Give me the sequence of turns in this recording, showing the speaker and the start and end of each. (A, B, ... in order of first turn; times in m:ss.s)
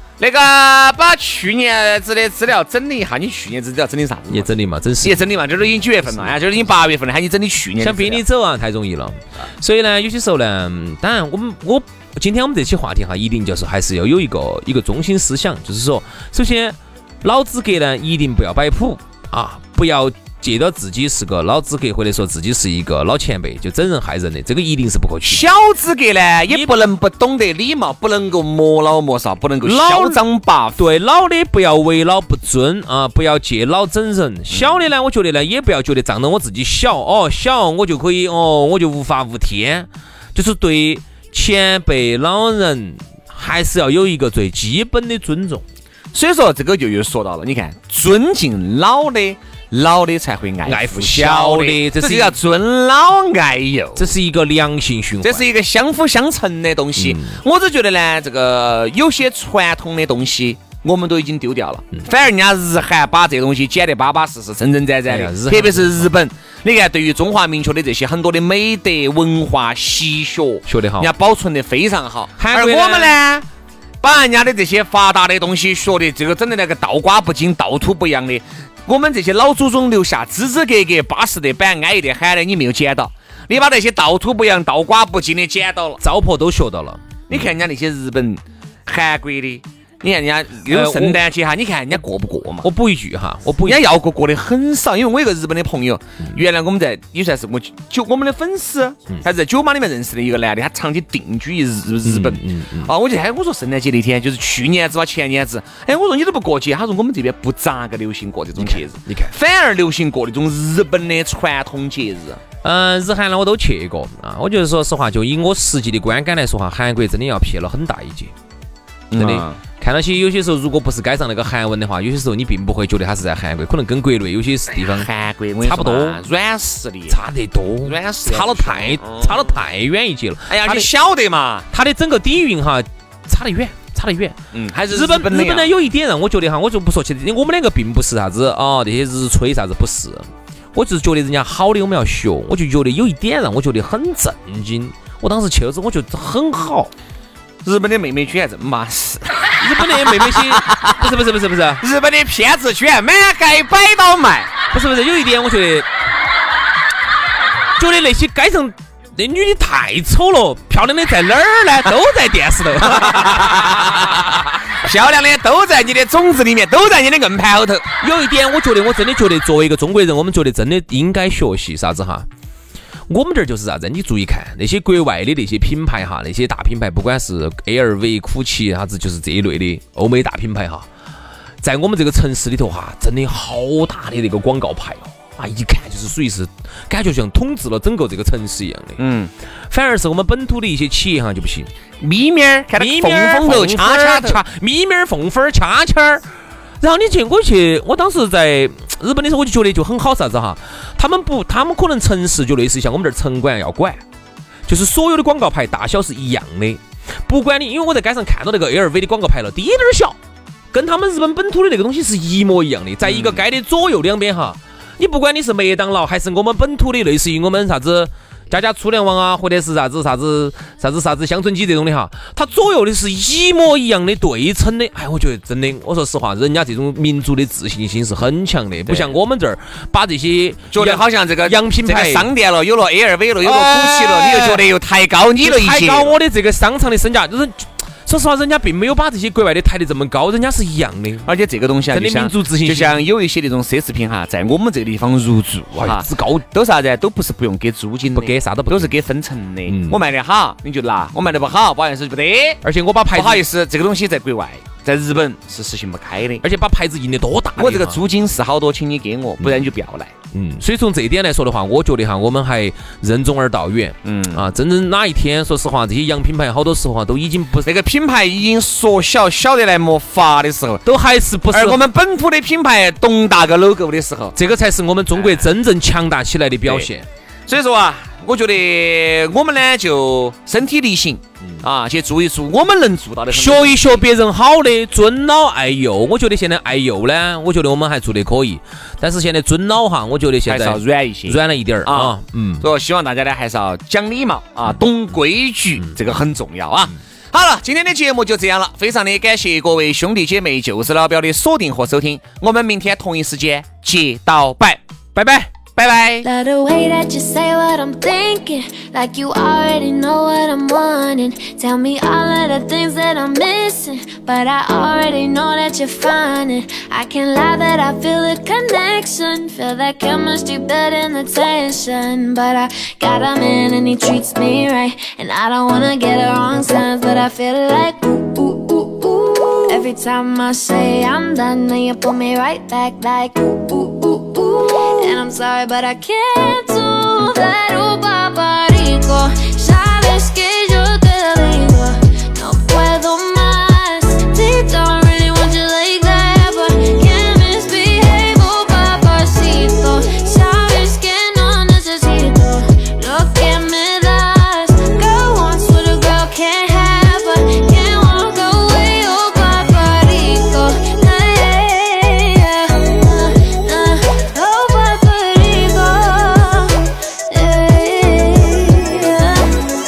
0:00.2-0:04.5 A
0:04.3-0:05.4 B
0:05.0-0:08.2 A
0:07.8-0:25.5 B
0:25.3-0:30.8 A
0:29.6-0:30.2 B
0:30.8-0:45.6 B
0:34.5-0:34.8 A
0:46.1-0:54.1 A
0:50.6-0:52.4 B
0:54.0-0:55.5 B
0:55.2-1:13.5 A
0:57.0-0:57.4 B
1:05.1-1:06.1 B
1:10.7-1:11.1 B
1:12.4-1:13.2 B
1:14.0-1:26.0 A
1:26.0-1:27.4 B
1:27.3-1:32.7 A
1:30.7-1:31.2 B
1:32.6-1:33.8 B
1:33.6-1:52.4 A
1:42.0-1:42.9 B
1:48.6-1:49.3 B
1:52.6-1:58.3 B
1:59.1-1:59.6 A
1:59.2-2:05.1 B
2:04.8-2:07.2 A
2:05.6-2:06.2 B
2:07.1-2:10.9 B
2:07.8-2:09.5 A
2:10.5-2:11.7 A
2:11.7-2:14.4 B
2:14.5-2:15.7 A
2:14.9-2:26.9 B
2:27.6-2:31.1 A
2:29.6-2:31.8 B
2:31.8-2:34.5 A
2:34.7-2:35.9 B
2:37.8-2:44.2 B
2:43.0-2:47.9 A
2:48.0-2:52.3 B
2:53.1-3:00.9 B
3:01.6-3:09.0 B
3:09.0-3:09.3 A
3:09.7-3:11.7 B
3:12.0-3:14.4 A
3:12.8-3:16.2 B
3:16.8-3:24.0 B
3:24.7-3:30.2 B
3:30.7-3:52.3 B
3:33.0-3:33.4 A
3:48.9-3:49.1 A
3:50.7-3:56.2 A
3:53.4-3:54.6 B
3:55.4-4:01.3 B
4:01.3-4:12.6 A
4:01.9-4:03.0 B
4:05.7-4:06.4 B
4:08.2-4:09.0 B
4:09.7-4:10.0 B
4:12.6-4:13.4 B
4:13.1-4:16.4 A
4:16.4-4:18.0 B
4:17.6-4:20.1 A
4:19.4-4:19.7 B
4:20.3-4:27.7 B
4:24.0-4:24.5 A
4:27.6-4:30.8 A
4:30.9-4:31.8 B
4:31.5-4:34.4 A
4:34.4-4:37.0 B
4:35.2-4:35.5 A
4:37.5-4:44.0 A
4:43.3-4:52.7 B
4:50.5-5:04.8 A
5:05.2-5:05.5 B
5:05.6-5:06.3 A
5:06.2-6:09.7 C